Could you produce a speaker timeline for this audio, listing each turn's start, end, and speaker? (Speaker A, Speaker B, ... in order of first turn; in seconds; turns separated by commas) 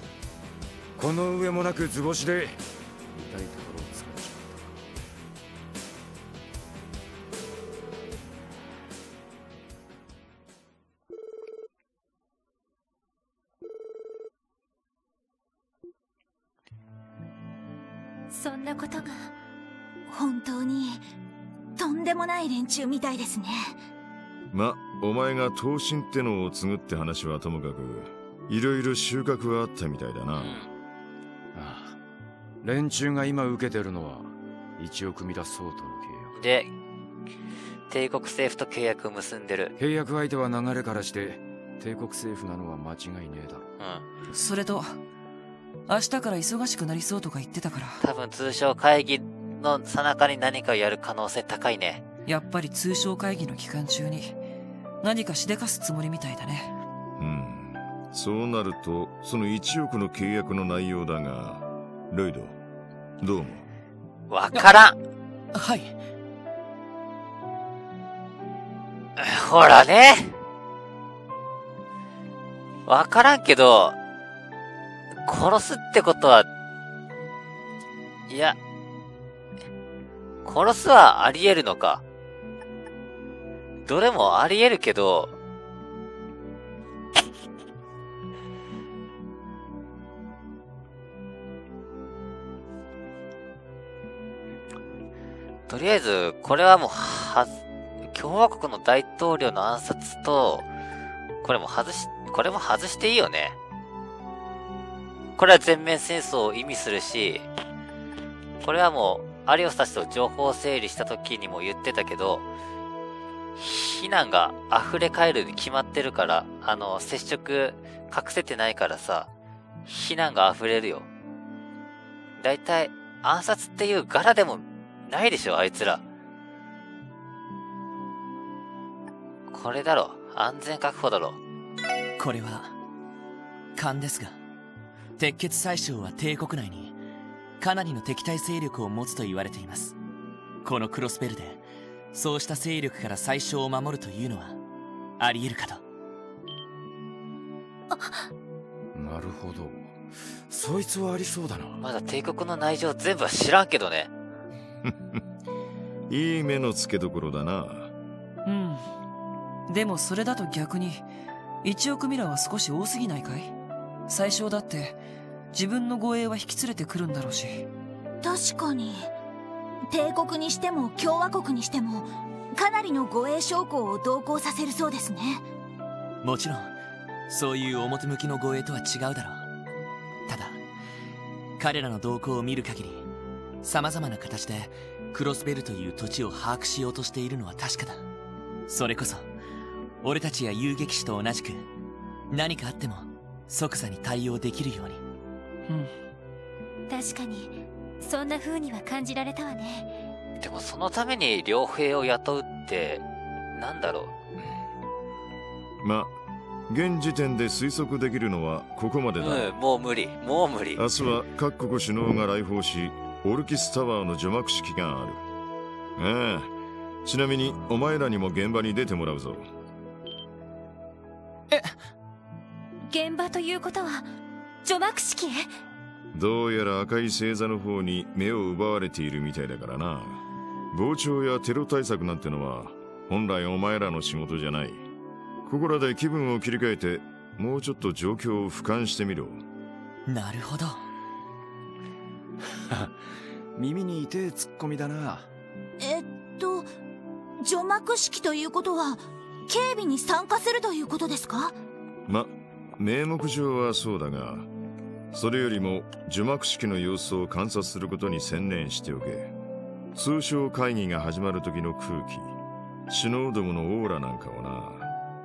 Speaker A: 1.0-2.6, Speaker A: 3.1-4.8, Speaker B: 18.3-19.3, Speaker C: 20.1-21.0, Speaker C: 21.8-23.8, Speaker D: 24.5-30.6, Speaker E: 30.3-30.7, Speaker A: 31.5-31.9, Speaker A: 32.6-36.3, Speaker E: 36.4-36.7, Speaker E: 37.9-39.7, Speaker A: 39.8-43.7, Speaker E: 43.8-44.1, Speaker F: 44.3-45.0, Speaker F: 45.9-48.0, Speaker E: 48.0-52.0, Speaker F: 52.3-54.4, Speaker F: 55.0-56.7, Speaker D: 57.2-62.5, Speaker D: 63.2-63.6, Speaker E: 64.3-65.0, Speaker G: 64.5-64.8, Speaker G: 65.5-65.9, Speaker E: 69.2-70.3, Speaker E: 72.9-74.0, Speaker E: 75.2-76.5, Speaker E: 78.3-78.6, Speaker E: 80.5-82.0, Speaker E: 83.9-85.3, Speaker E: 95.7-97.5, Speaker E: 98.1-100.7, Speaker E: 101.4-103.6, Speaker E: 105.4-107.5, Speaker E: 108.6-112.5, Speaker E: 113.6-119.3, Speaker E: 119.9-121.1, Speaker E: 122.4-126.0, Speaker E: 129.5-131.4, Speaker G: 132.2-132.7, Speaker G: 133.8-134.4, Speaker G: 135.2-136.9, Speaker G: 137.6-140.0, Speaker G: 140.6-141.6, Speaker G: 142.1-144.6, Speaker G: 145.2-145.8, Speaker A: 148.9-149.9, Speaker A: 150.5-151.8, Speaker E: 151.8-154.1, Speaker D: 156.1-157.9, Speaker F: 158.5-158.9, Speaker F: 159.7-161.1, Speaker F: 161.6-163.5, Speaker F: 164.1-165.0, Speaker F: 165.5-167.7, Speaker C: 168.2-169.1, Speaker C: 169.9-175.4, Speaker G: 176.2-176.7, Speaker G: 177.3-179.4, Speaker G: 180.3-180.6, Speaker G: 181.6-183.1, Speaker G: 183.6-188.0, Speaker G: 188.7-189.3, Speaker G: 190.0-191.7, Speaker G: 192.3-195.0, Speaker F: 195.7-195.9, Speaker B: 196.9-199.9, Speaker E: 200.4-203.0, Speaker E: 203.6-204.1, Speaker D: 205.8-206.1, Speaker D: 206.7-209.5, Speaker E: 209.2-210.8, Speaker D: 210.8-215.2, Speaker D: 216.0-216.5, Speaker D: 217.1-219.5, Speaker B: 222.9-224.1, Speaker B: 224.7-225.5, Speaker D: 226.1-234.8, Speaker D: 235.4-239.4, Speaker G: 240.1-240.8, Speaker A: 243.6-245.3, Speaker C: 245.8-246.7, Speaker C: 247.4-251.6, Speaker D: 252.1-254.5, Speaker D: 255.1-259.3, Speaker D: 259.9-262.3, Speaker D: 262.9-264.9